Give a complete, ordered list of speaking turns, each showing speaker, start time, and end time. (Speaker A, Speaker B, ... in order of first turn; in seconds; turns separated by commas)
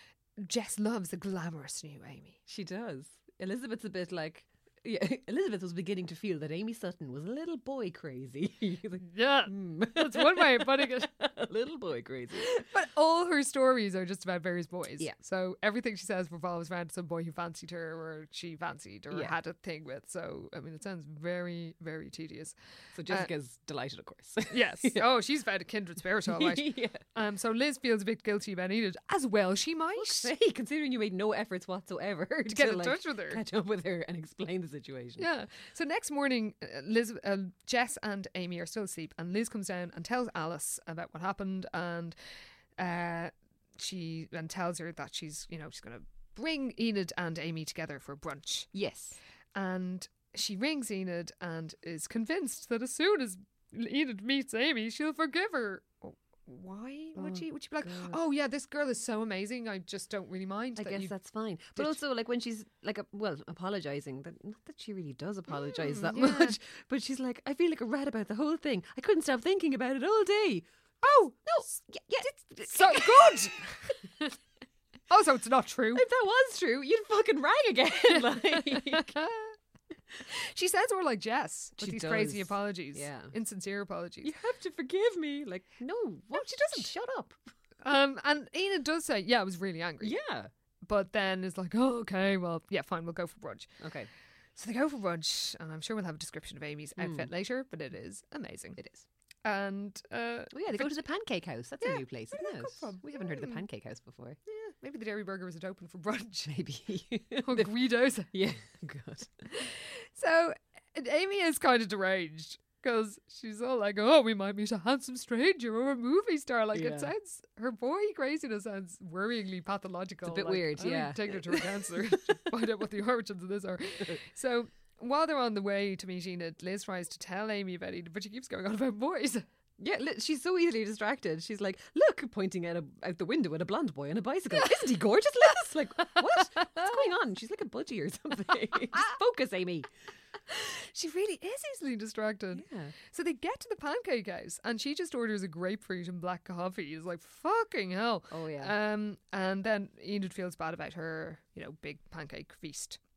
Speaker A: 0.4-2.4, Speaker B: 2.5-12.6, Speaker A: 9.0-11.1, Speaker A: 12.4-22.6, Speaker B: 22.9-25.0, Speaker A: 24.5-30.3, Speaker B: 26.2-27.0, Speaker B: 29.9-35.3, Speaker A: 32.5-33.4, Speaker A: 35.2-42.1, Speaker A: 42.8-48.7, Speaker B: 48.7-49.2, Speaker A: 49.5-61.1, Speaker B: 57.1-58.2, Speaker B: 60.8-73.5, Speaker A: 65.5-66.6, Speaker A: 71.0-71.7, Speaker A: 72.7-74.3, Speaker A: 75.1-76.0, Speaker B: 75.9-79.1, Speaker A: 78.1-79.5, Speaker A: 80.1-84.3, Speaker B: 81.8-83.3, Speaker B: 84.2-87.5, Speaker A: 86.3-86.9, Speaker A: 87.8-90.2, Speaker B: 90.0-90.5, Speaker A: 90.8-93.8, Speaker B: 93.8-94.1, Speaker A: 94.5-98.8, Speaker B: 97.0-97.3, Speaker B: 98.8-99.0, Speaker A: 99.4-101.0, Speaker B: 100.5-104.4, Speaker A: 101.8-103.6, Speaker A: 104.5-106.5, Speaker B: 106.5-107.7, Speaker A: 107.4-108.3, Speaker B: 108.3-109.5, Speaker A: 109.5-129.4, Speaker B: 116.7-117.1, Speaker B: 120.2-122.2, Speaker B: 129.8-139.9, Speaker A: 140.5-153.0, Speaker B: 142.5-142.9, Speaker B: 148.3-148.7